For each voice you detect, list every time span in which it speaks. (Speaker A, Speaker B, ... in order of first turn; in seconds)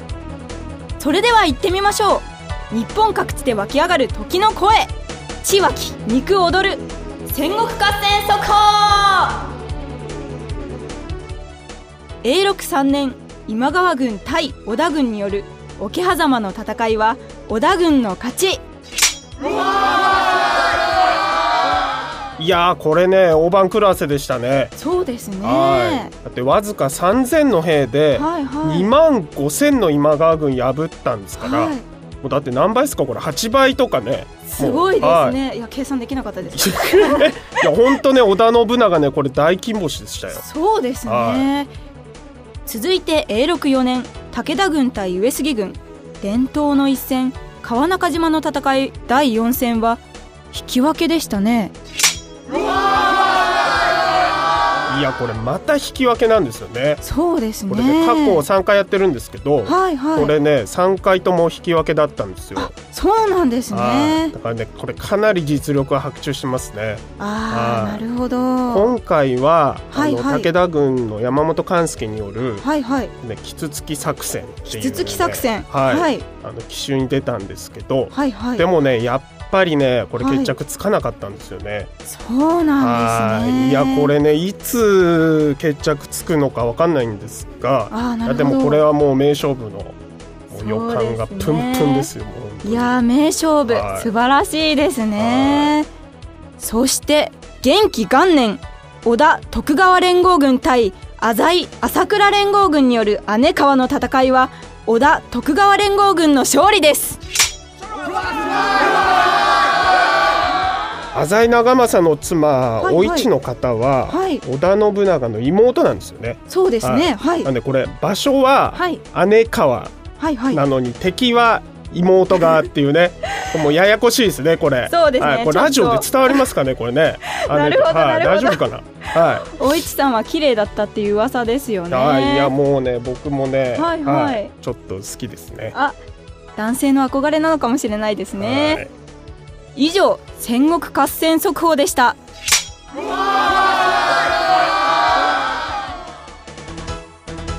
Speaker A: 1.0-9.5, 12.2-18.6, 24.8-26.1, 28.1-28.9, 31.4-31.9, 34.5-37.4, 40.3-41.7, 42.6-51.7, 57.0-58.4, 59.6-60.3, 62.5-64.3, 67.2-68.9, 69.9-70.5, 72.6-73.1, 74.7-76.2, 78.1-78.7, 80.2-80.5, 82.0-84.1, 87.9-88.9, 90.5-92.1, 92.6-95.9, 96.6-107.2, 112.8-113.3, 114.1-114.4, 116.5-117.5, 118.7-119.0, 120.2-120.6, 124.9-126.4, 127.4-128.6, 129.2-132.5, 133.7-134.5, 136.6-138.8, 139.7-142.2
Speaker B: 22.4-24.7, 25.4-35.4, 36.5-40.4, 41.0-41.5, 54.9-57.0, 57.7-62.7, 63.7-68.0, 68.7-72.6, 73.2-81.9, 82.8-90.0, 90.5-93.0, 93.7-94.1, 95.2-95.8, 111.1-120.0, 120.5-129.6, 131.9-135.8, 138.4-138.9